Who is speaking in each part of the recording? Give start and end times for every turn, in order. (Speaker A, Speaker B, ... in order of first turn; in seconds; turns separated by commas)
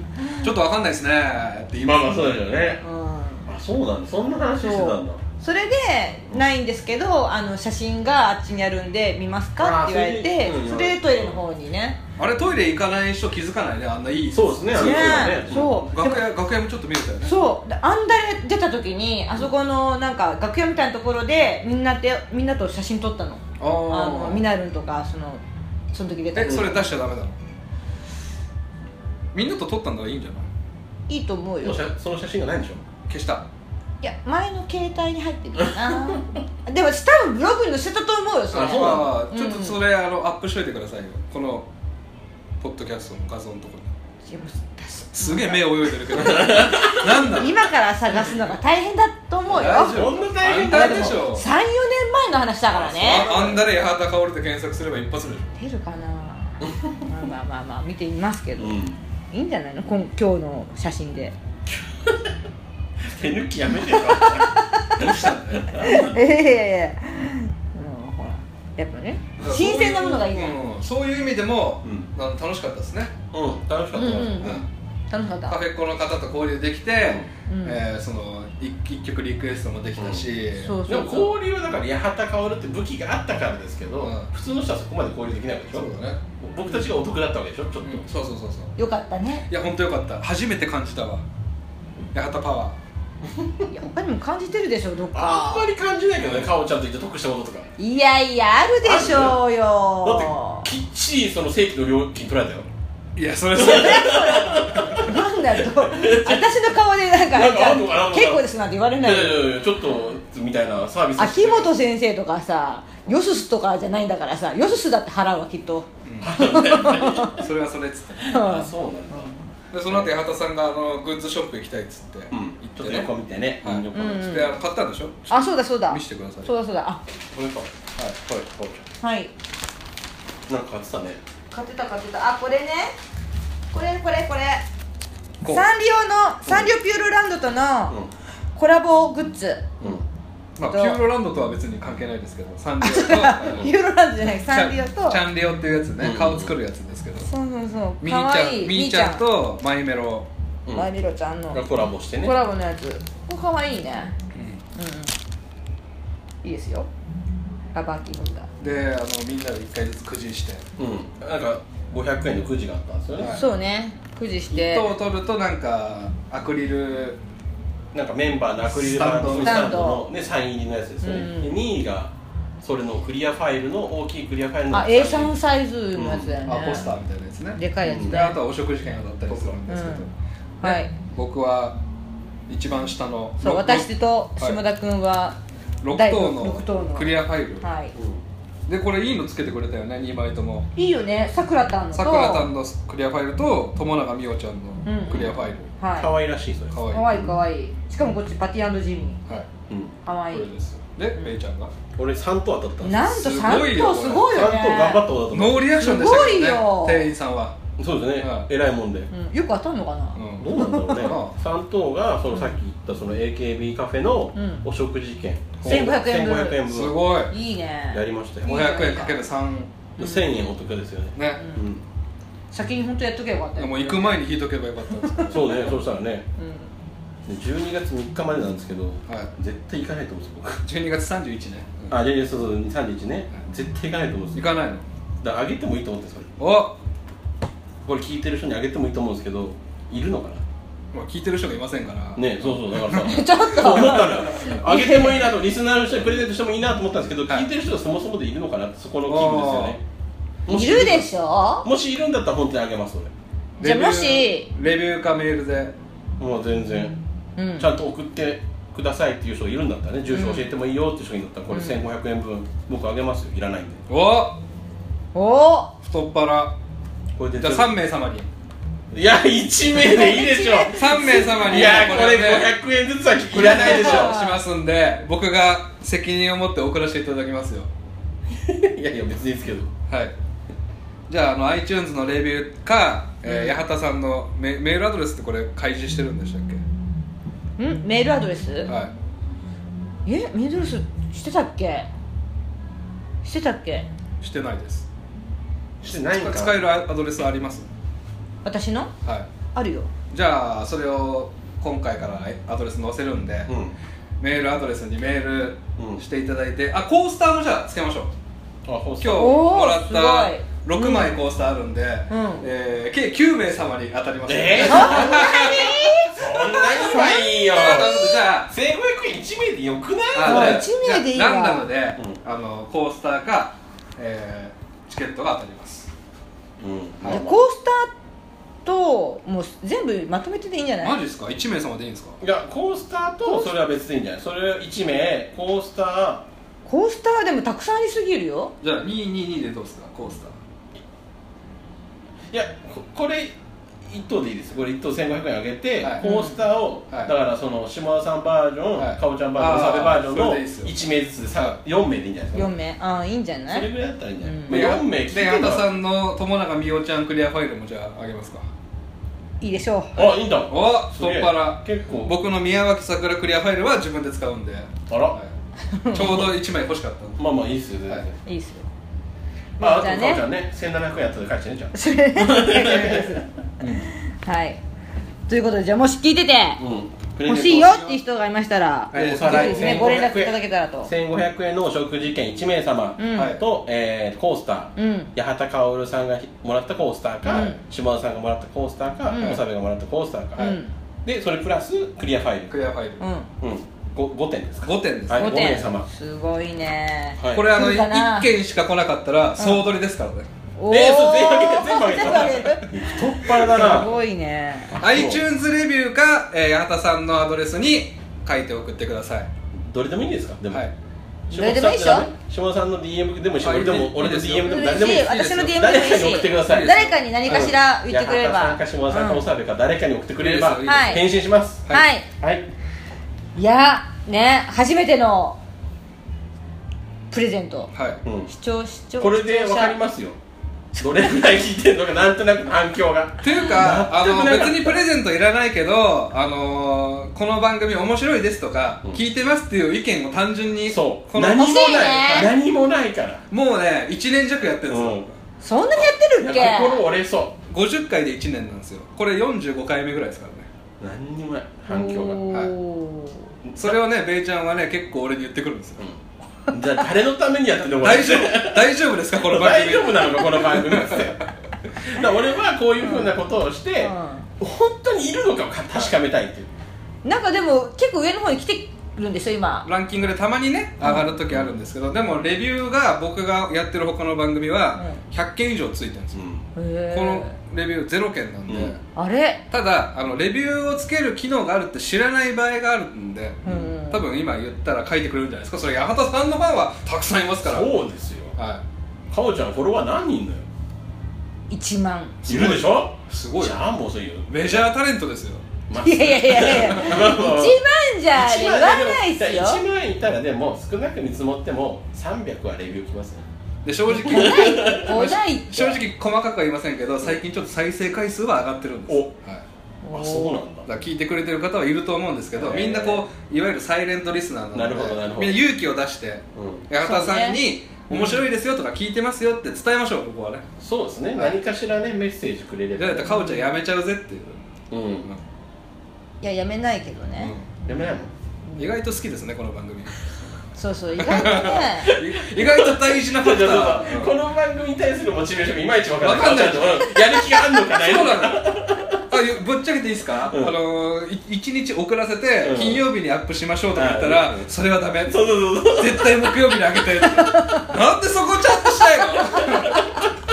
Speaker A: 0.3-2.3, Speaker B: 1.8-2.8, Speaker C: 2.8-3.5, Speaker B: 3.5-5.2, Speaker C: 4.6-12.0, Speaker B: 9.6-11.4, Speaker A: 12.2-17.3, Speaker B: 14.3-15.8, Speaker C: 14.7-16.2, Speaker C: 17.2-25.4, Speaker A: 23.6-24.4, Speaker C: 25.9-26.9, Speaker A: 26.3-27.4, Speaker B: 26.4-26.8, Speaker A: 29.3-30.4, Speaker C: 31.1-31.9, Speaker B: 31.6-32.8, Speaker A: 33.1-33.5, Speaker C: 34.0-39.8, Speaker B: 38.5-39.1, Speaker A: 38.5-41.7, Speaker A: 42.6-43.9, Speaker C: 44.2-45.6, Speaker A: 45.1-47.6, Speaker C: 46.2-50.1, Speaker B: 46.2-47.2, Speaker A: 49.5-51.4, Speaker B: 49.5-51.3, Speaker C: 50.7-53.3, Speaker B: 52.7-53.7, Speaker A: 52.9-55.5, Speaker C: 55.6-61.4, Speaker B: 58.6-59.0, Speaker B: 61.7-62.3, Speaker B: 63.0-66.1, Speaker C: 63.8-65.0, Speaker A: 65.0-65.9, Speaker C: 65.7-70.5, Speaker A: 69.4-73.1, Speaker B: 73.3-74.6, Speaker C: 73.9-75.6, Speaker A: 74.2-74.6, Speaker A: 75.5-80.8, Speaker C: 77.5-77.8, Speaker B: 80.0-80.3, Speaker C: 80.6-81.3, Speaker B: 80.9-88.0, Speaker A: 84.0-84.3, Speaker A: 85.7-86.2, Speaker A: 87.8-88.7, Speaker C: 88.8-89.5, Speaker A: 89.5-91.2, Speaker A: 92.1-92.8, Speaker B: 93.2-93.7, Speaker C: 93.7-95.7, Speaker B: 95.1-97.7, Speaker A: 96.2-96.5, Speaker C: 97.8-100.7, Speaker B: 98.8-99.4, Speaker B: 100.0-102.7, Speaker A: 103.2-105.1, Speaker B: 103.5-106.5, Speaker C: 103.5-109.5, Speaker B: 107.3-108.4, Speaker B: 109.0-111.7, Speaker C: 111.2-115.9, Speaker A: 116.0-118.4, Speaker B: 116.2-117.4, Speaker C: 116.4-117.3, Speaker B: 118.2-119.3, Speaker C: 118.3-119.5, Speaker A: 119.7-123.1, Speaker B: 119.9-120.1, Speaker B: 122.3-124.4, Speaker A: 123.6-126.5, Speaker C: 123.9-124.5, Speaker C: 125.3-127.0, Speaker B: 127.3-128.8, Speaker C: 129.0-129.3, Speaker B: 130.5-131.2, Speaker C: 131.5-132.9, Speaker C: 133.7-134.6, Speaker A: 135.4-135.7, Speaker C: 135.4-138.0, Speaker C: 138.5-139.7, Speaker A: 140.6-143.7, Speaker C: 140.7-141.0, Speaker C: 142.8-145.2, Speaker A: 144.3-147.3, Speaker B: 146.0-146.5, Speaker C: 147.2-149.2, Speaker A: 148.0-150.3, Speaker C: 150.7-151.6, Speaker B: 151.5-152.3, Speaker C: 152.2-154.1, Speaker A: 154.3-154.6, Speaker C: 154.7-155.1, Speaker C: 156.4-156.9, Speaker C: 157.7-158.5, Speaker A: 158.6-160.6, Speaker B: 160.8-163.4, Speaker A: 163.2-163.4, Speaker C: 163.3-164.9, Speaker A: 164.5-167.2, Speaker B: 167.9-175.3, Speaker A: 168.6-169.8, Speaker C: 169.3-170.0, Speaker C: 171.0-171.6, Speaker C: 174.7-176.9, Speaker B: 175.9-176.4, Speaker A: 176.4-181.8, Speaker C: 177.6-178.4, Speaker B: 177.8-178.2, Speaker B: 179.3-179.6, Speaker C: 179.7-180.1, Speaker C: 180.6-180.9, Speaker A: 182.5-183.9, Speaker C: 183.4-185.4, Speaker A: 185.8-187.7, Speaker C: 185.9-187.9, Speaker B: 187.9-188.2, Speaker A: 188.7-190.7, Speaker C: 190.8-192.5, Speaker A: 191.9-195.7, Speaker C: 194.8-196.1, Speaker B: 195.1-197.3, Speaker A: 196.7-197.1, Speaker C: 196.9-199.2, Speaker B: 199.7-199.9, Speaker C: 200.1-200.5, Speaker A: 200.3-201.7, Speaker B: 201.9-203.7, Speaker C: 202.8-205.0, Speaker A: 203.0-204.4, Speaker B: 204.2-205.6, Speaker A: 205.3-207.5, Speaker C: 205.7-207.0, Speaker B: 207.8-209.1, Speaker A: 208.2-208.5, Speaker C: 209.1-211.1, Speaker A: 210.2-211.3, Speaker B: 210.4-217.0, Speaker C: 214.3-214.6, Speaker A: 215.6-215.9, Speaker C: 215.6-216.6, Speaker A: 216.7-217.3, Speaker C: 217.3-219.2, Speaker B: 217.9-218.6, Speaker A: 218.4-219.8, Speaker C: 220.0-220.2, Speaker B: 220.0-221.8, Speaker A: 221.2-221.4, Speaker C: 221.4-221.6, Speaker C: 222.5-224.2, Speaker A: 223.6-225.6, Speaker C: 225.0-225.3, Speaker B: 225.3-226.3, Speaker C: 226.4-226.7, Speaker B: 227.2-230.6, Speaker A: 230.6-232.0, Speaker B: 231.9-234.4, Speaker A: 234.3-234.8, Speaker B: 235.2-236.3, Speaker A: 236.4-236.8, Speaker B: 237.8-240.4, Speaker A: 240.9-243.2, Speaker B: 242.2-249.8, Speaker C: 243.0-245.3, Speaker A: 249.0-249.8, Speaker B: 250.4-251.1, Speaker C: 250.5-251.7, Speaker B: 251.6-253.1, Speaker A: 253.6-255.7, Speaker C: 253.6-254.5, Speaker B: 256.2-256.9, Speaker C: 257.4-257.7, Speaker B: 257.6-263.8, Speaker C: 260.1-260.5, Speaker C: 261.5-261.8, Speaker A: 263.9-264.4, Speaker C: 265.1-265.7, Speaker A: 265.8-266.5, Speaker B: 267.1-267.7, Speaker A: 267.4-268.3, Speaker B: 268.9-274.2, Speaker C: 269.7-271.9, Speaker A: 270.7-272.5, Speaker A: 273.3-277.7, Speaker C: 273.4-274.4, Speaker B: 278.3-279.7, Speaker A: 279.9-280.1, Speaker A: 281.1-286.6, Speaker C: 283.2-283.6, Speaker C: 287.6-288.7, Speaker A: 288.7-288.9, Speaker C: 290.1-291.9, Speaker C: 293.2-293.9, Speaker A: 294.2-294.9, Speaker B: 295.8-296.6, Speaker A: 295.8-297.7, Speaker C: 298.4-298.9, Speaker C: 299.5-299.9, Speaker A: 300.1-303.5, Speaker B: 303.5-303.7, Speaker A: 304.2-308.1, Speaker B: 305.8-306.0, Speaker B: 308.6-309.4, Speaker A: 309.0-315.9, Speaker C: 309.1-311.1, Speaker C: 312.1-312.5, Speaker B: 314.3-320.7, Speaker C: 314.7-318.1, Speaker A: 316.7-318.5, Speaker A: 320.1-325.9, Speaker C: 320.2-321.7, Speaker B: 326.6-327.4, Speaker C: 327.1-327.9, Speaker C: 328.6-331.0, Speaker A: 330.8-332.2, Speaker B: 332.2-336.2, Speaker C: 333.2-333.5, Speaker C: 336.6-338.5, Speaker A: 338.6-340.3, Speaker B: 342.3-352.5, Speaker A: 345.8-346.1, Speaker C: 346.0-346.4, Speaker A: 348.8-350.7, Speaker C: 352.3-353.7, Speaker B: 353.5-355.6, Speaker C: 354.2-354.6, Speaker A: 354.5-358.4, Speaker C: 359.4-360.0, Speaker B: 359.9-362.2, Speaker A: 360.5-365.3, Speaker B: 364.9-365.2, Speaker C: 365.7-366.3, Speaker A: 365.9-367.2, Speaker B: 367.2-368.1, Speaker C: 368.2-368.6, Speaker B: 369.6-373.2, Speaker C: 369.6-370.2, Speaker C: 371.7-374.6, Speaker A: 373.6-373.9, Speaker C: 375.3-376.6, Speaker B: 376.6-377.9, Speaker C: 377.2-380.9, Speaker A: 378.9-379.9, Speaker B: 378.9-392.5, Speaker C: 383.0-383.4, Speaker A: 383.1-383.4, Speaker C: 384.8-385.1, Speaker C: 387.3-387.6, Speaker C: 389.1-389.4, Speaker C: 390.4-390.7, Speaker A: 392.5-393.0, Speaker C: 393.0-393.3, Speaker B: 393.4-395.9, Speaker A: 394.6-395.6, Speaker C: 395.1-398.3, Speaker B: 397.2-397.5, Speaker A: 397.3-400.3, Speaker C: 399.4-399.6, Speaker C: 400.6-404.7, Speaker B: 400.7-403.9, Speaker B: 404.7-405.2, Speaker A: 404.8-409.3, Speaker B: 409.5-410.6, Speaker B: 411.3-421.6, Speaker C: 411.3-412.1, Speaker A: 413.4-415.5, Speaker C: 414.4-419.2, Speaker A: 416.4-417.5, Speaker A: 420.2-421.1, Speaker C: 420.6-421.0, Speaker C: 421.7-422.1, Speaker B: 422.2-422.5, Speaker C: 423.4-425.4, Speaker C: 427.1-427.7, Speaker A: 427.7-428.0, Speaker B: 428.0-428.3, Speaker C: 428.3-429.8, Speaker B: 429.0-430.2, Speaker C: 430.8-431.1, Speaker B: 430.8-434.8, Speaker A: 433.2-442.3, Speaker B: 440.6-443.2, Speaker C: 441.3-442.3, Speaker A: 443.3-445.2, Speaker B: 444.7-445.1, Speaker C: 445.4-446.8, Speaker B: 446.2-447.4, Speaker A: 447.5-450.5, Speaker B: 450.8-452.2, Speaker C: 451.7-453.3, Speaker B: 453.4-453.7, Speaker A: 453.5-455.8, Speaker B: 456.5-461.2, Speaker A: 457.8-461.2, Speaker B: 461.8-466.5, Speaker C: 463.8-464.3, Speaker C: 467.0-469.7, Speaker A: 469.6-476.2, Speaker B: 476.1-476.4, Speaker C: 476.6-477.3, Speaker A: 476.9-478.8, Speaker B: 478.5-478.7, Speaker C: 478.9-479.4, Speaker A: 479.5-487.7, Speaker C: 483.4-484.0, Speaker B: 487.4-488.4, Speaker A: 488.4-488.6, Speaker B: 489.1-490.4, Speaker C: 491.5-492.2, Speaker A: 492.2-493.6, Speaker B: 492.3-494.6, Speaker A: 494.3-495.4, Speaker B: 495.7-497.6, Speaker C: 495.7-499.6, Speaker B: 498.1-503.3, Speaker A: 503.6-509.4, Speaker C: 503.9-505.8, Speaker B: 504.0-504.9, Speaker B: 508.9-509.1, Speaker C: 509.8-510.4, Speaker B: 509.9-510.7, Speaker A: 510.6-520.4, Speaker B: 512.3-513.0, Speaker B: 514.5-515.4, Speaker B: 516.3-516.6, Speaker C: 516.8-518.2, Speaker B: 520.6-523.1, Speaker A: 522.8-524.5, Speaker C: 523.0-523.5, Speaker B: 524.7-525.1, Speaker C: 526.2-527.3, Speaker A: 527.2-527.5, Speaker B: 527.6-528.1, Speaker A: 528.6-530.0, Speaker C: 530.5-531.9, Speaker A: 531.0-534.1, Speaker B: 531.9-539.0, Speaker A: 536.0-538.6, Speaker A: 539.1-549.9, Speaker B: 540.3-540.5, Speaker B: 542.4-542.8, Speaker B: 543.7-544.5, Speaker B: 545.0-546.8, Speaker C: 547.1-547.7, Speaker C: 548.8-549.8